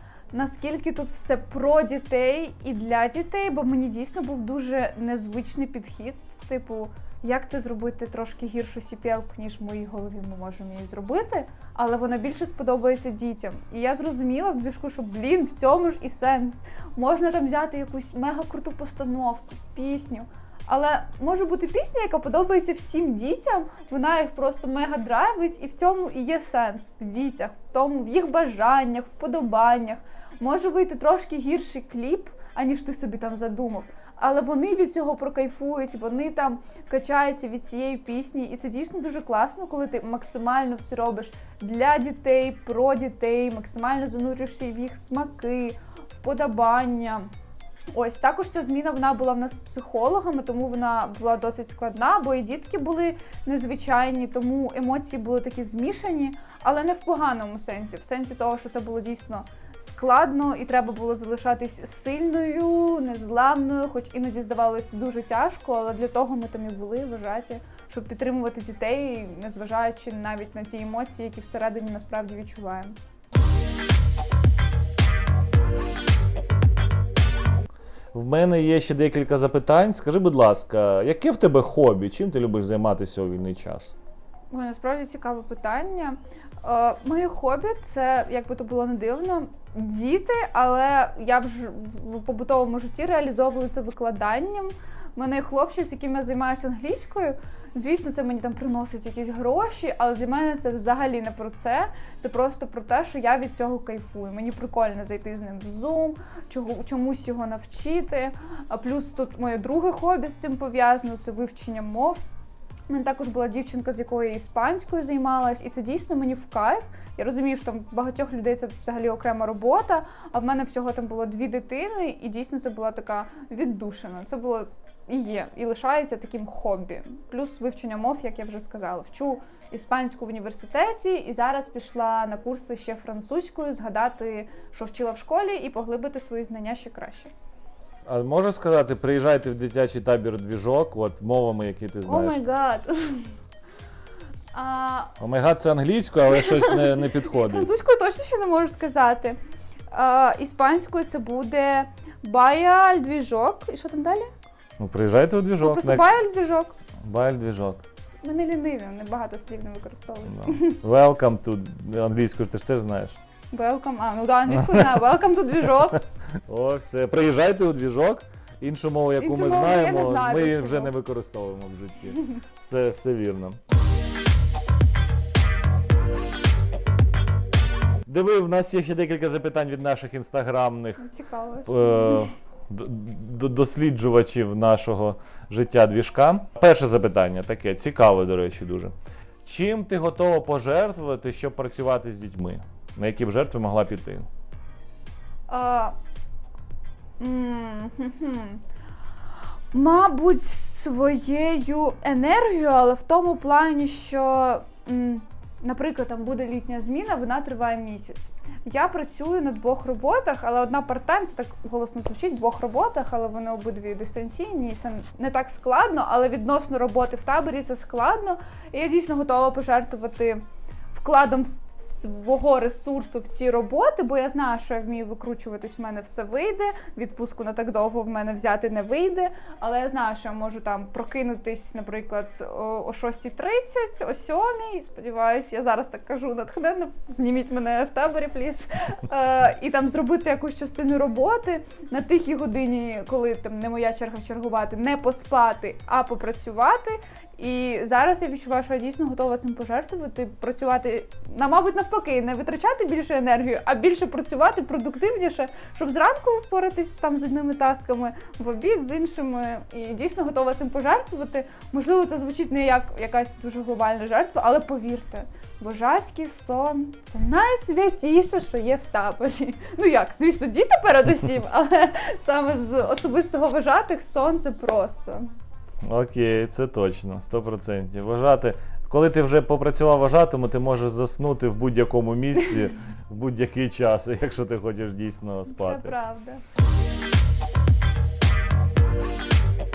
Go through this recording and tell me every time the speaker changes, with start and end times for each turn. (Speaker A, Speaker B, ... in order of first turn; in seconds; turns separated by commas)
Speaker A: 0.3-47.3, Speaker A: 47.9-73.0, Speaker B: 78.1-83.9, Speaker A: 84.5-112.2, Speaker A: 112.9-137.3, Speaker B: 138.1-142.4, Speaker A: 142.1-143.3, Speaker A: 144.5-145.1, Speaker B: 145.2-147.7, Speaker A: 146.3-149.4, Speaker A: 149.9-154.3, Speaker B: 154.8-156.1, Speaker A: 155.6-156.8, Speaker B: 157.0-157.8, Speaker A: 158.2-160.8, Speaker B: 160.3-163.2, Speaker A: 163.5-166.0, Speaker B: 164.5-165.0, Speaker B: 166.5-173.6, Speaker A: 169.2-170.9, Speaker B: 178.1-181.1, Speaker A: 181.0-182.3, Speaker B: 181.7-188.9, Speaker B: 189.4-194.3, Speaker A: 195.5-195.9, Speaker A: 197.2-198.6, Speaker A: 199.7-220.4, Speaker A: 220.9-275.3, Speaker B: 275.9-285.9, Speaker A: 285.5-286.4